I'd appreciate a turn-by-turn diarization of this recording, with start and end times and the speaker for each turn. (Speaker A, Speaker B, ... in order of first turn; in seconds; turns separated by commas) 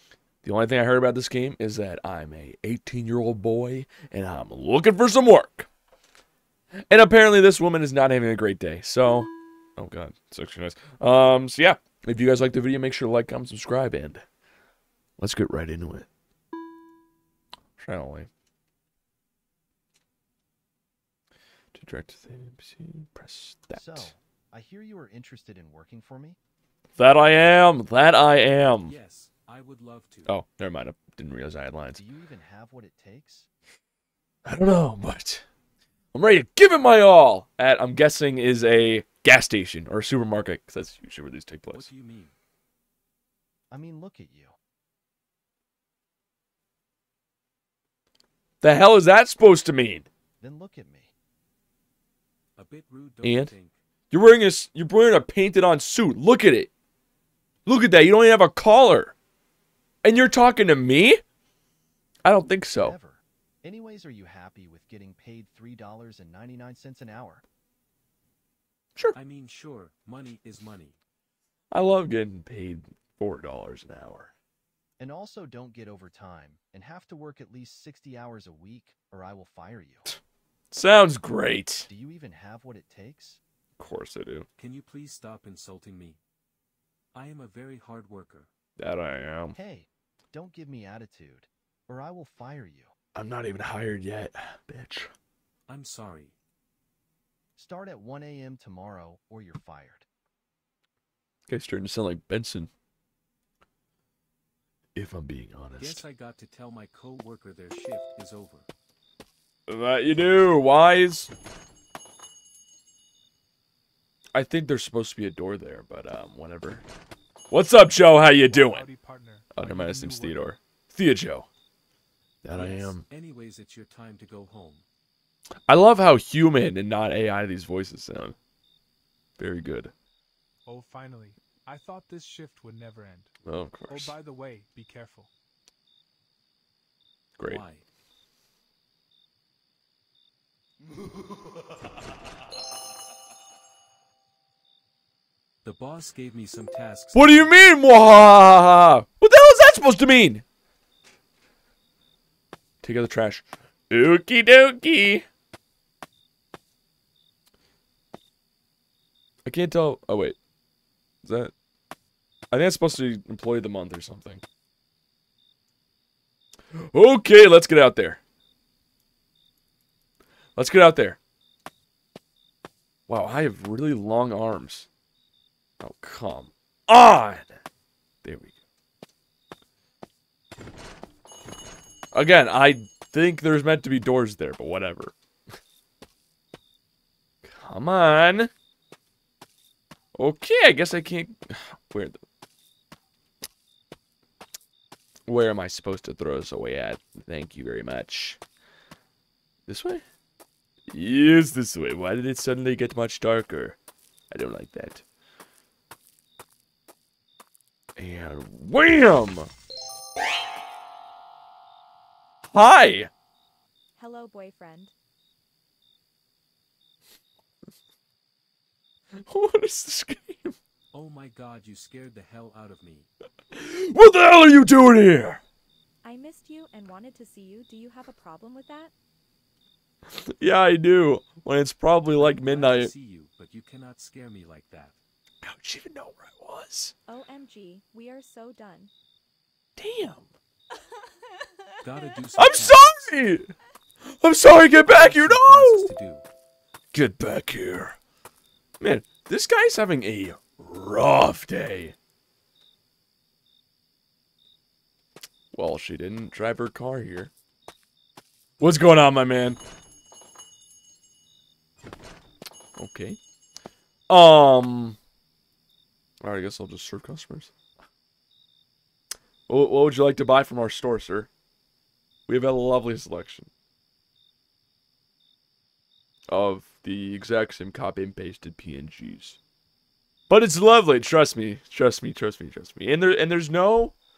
Speaker A: 0.4-5.7, Speaker A: 6.9-14.2, Speaker A: 15.2-16.1, Speaker A: 17.8-18.3, Speaker A: 21.7-24.1, Speaker B: 23.7-26.4, Speaker A: 27.0-28.9, Speaker C: 28.8-30.3, Speaker A: 30.3-32.0, Speaker B: 31.9-33.5, Speaker A: 34.5-35.5, Speaker A: 36.1-41.9, Speaker C: 41.7-42.4, Speaker B: 43.7-44.5, Speaker A: 48.6-50.1, Speaker B: 50.4-51.1, Speaker C: 52.6-53.8, Speaker A: 53.2-53.5, Speaker A: 54.1-56.7, Speaker A: 57.7-59.1, Speaker A: 60.0-61.2, Speaker A: 62.2-63.0, Speaker B: 62.8-67.4, Speaker C: 69.1-71.0, Speaker A: 71.7-74.3, Speaker B: 75.0-80.1, Speaker A: 80.7-81.9, Speaker B: 81.9-83.4, Speaker A: 83.8-84.5, Speaker C: 84.6-86.2, Speaker C: 87.2-88.5, Speaker A: 88.8-89.6, Speaker B: 89.5-92.9, Speaker A: 93.2-95.1, Speaker C: 95.7-96.4, Speaker B: 97.6-100.1, Speaker A: 101.5-102.7, Speaker A: 105.0-106.0, Speaker C: 105.8-108.7, Speaker A: 109.7-111.3, Speaker A: 114.3-116.8, Speaker A: 117.5-118.8, Speaker D: 117.8-120.5, Speaker A: 119.5-121.5, Speaker A: 122.4-123.1, Speaker C: 122.5-124.8, Speaker A: 125.7-128.4, Speaker A: 129.4-129.9, Speaker D: 130.7-133.3, Speaker A: 133.5-134.2, Speaker D: 133.8-135.3, Speaker C: 137.4-137.8, Speaker C: 145.6-147.5, Speaker A: 147.2-150.4, Speaker A: 152.8-155.3, Speaker A: 159.5-160.4, Speaker A: 161.2-161.5, Speaker A: 162.5-164.4, Speaker A: 166.8-168.2, Speaker A: 170.6-171.2, Speaker A: 173.1-174.9, Speaker A: 175.8-177.6, Speaker A: 178.2-178.6, Speaker A: 182.1-185.2, Speaker A: 187.4-188.5, Speaker A: 190.2-192.2, Speaker A: 195.3-198.4, Speaker A: 199.7-200.0, Speaker A: 200.9-203.8, Speaker A: 204.3-205.1, Speaker A: 208.0-209.5, Speaker A: 212.5-213.1, Speaker E: 214.0-214.9, Speaker A: 219.2-220.6, Speaker C: 220.9-223.1, Speaker A: 223.5-225.4, Speaker E: 226.0-228.9, Speaker A: 230.1-232.9, Speaker C: 232.2-235.0, Speaker A: 235.4-236.9, Speaker E: 237.1-238.9, Speaker A: 239.8-240.3, Speaker E: 240.9-241.7, Speaker C: 241.8-242.8, Speaker A: 242.4-243.5, Speaker A: 244.1-245.9, Speaker C: 244.9-246.3, Speaker A: 246.9-248.0, Speaker A: 248.8-252.0, Speaker A: 255.5-257.3, Speaker A: 258.6-259.6, Speaker A: 262.8-263.2, Speaker A: 264.1-265.0, Speaker A: 266.2-267.5, Speaker A: 269.5-271.3, Speaker A: 272.3-273.5, Speaker A: 276.3-279.4, Speaker A: 280.3-283.9